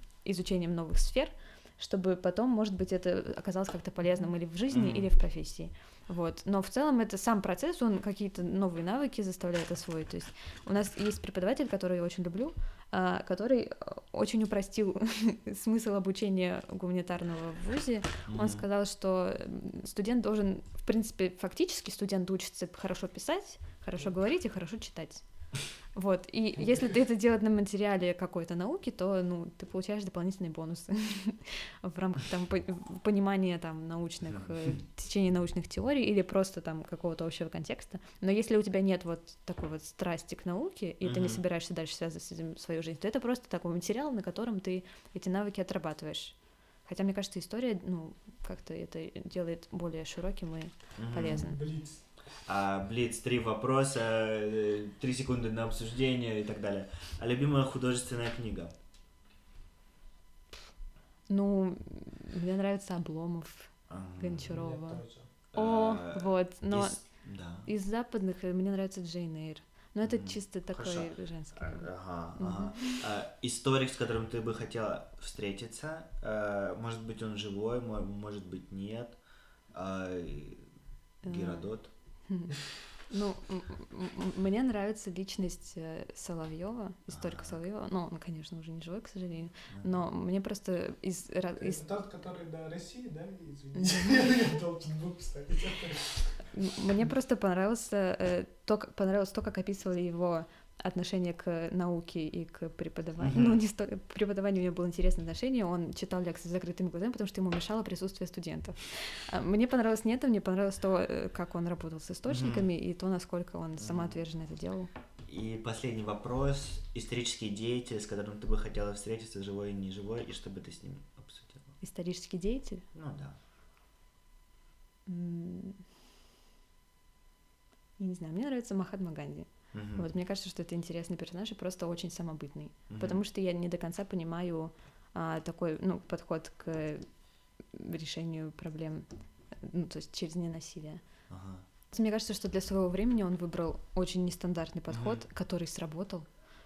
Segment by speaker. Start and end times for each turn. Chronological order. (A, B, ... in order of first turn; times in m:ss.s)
0:00.2-0:51.6 A
0:04.7-0:05.1 B
0:18.3-0:18.6 B
0:34.3-0:34.8 B
0:41.0-0:41.4 B
0:51.0-0:51.6 B
0:51.2-0:52.1 C
0:52.4-0:58.7 B
1:01.3-1:13.0 A
1:03.9-1:04.6 B
1:04.5-1:05.3 C
1:05.5-1:07.7 B
1:10.0-1:20.7 B
1:21.2-1:21.9 B
1:21.2-1:31.8 A
1:27.1-1:27.6 B
1:31.6-1:36.5 C
1:33.7-1:34.1 A
1:36.5-1:54.9 A
1:43.2-1:43.6 B
1:52.3-1:52.7 B
1:53.8-1:54.2 B
1:55.2-2:01.8 B
2:01.8-2:02.9 A
2:02.9-2:03.4 B
2:05.0-2:05.8 A
2:08.0-2:17.1 A
2:09.7-2:10.1 B
2:12.9-2:13.2 B
2:17.6-2:21.0 A
2:21.3-2:21.6 B
2:21.9-2:26.3 A
2:24.9-2:25.2 B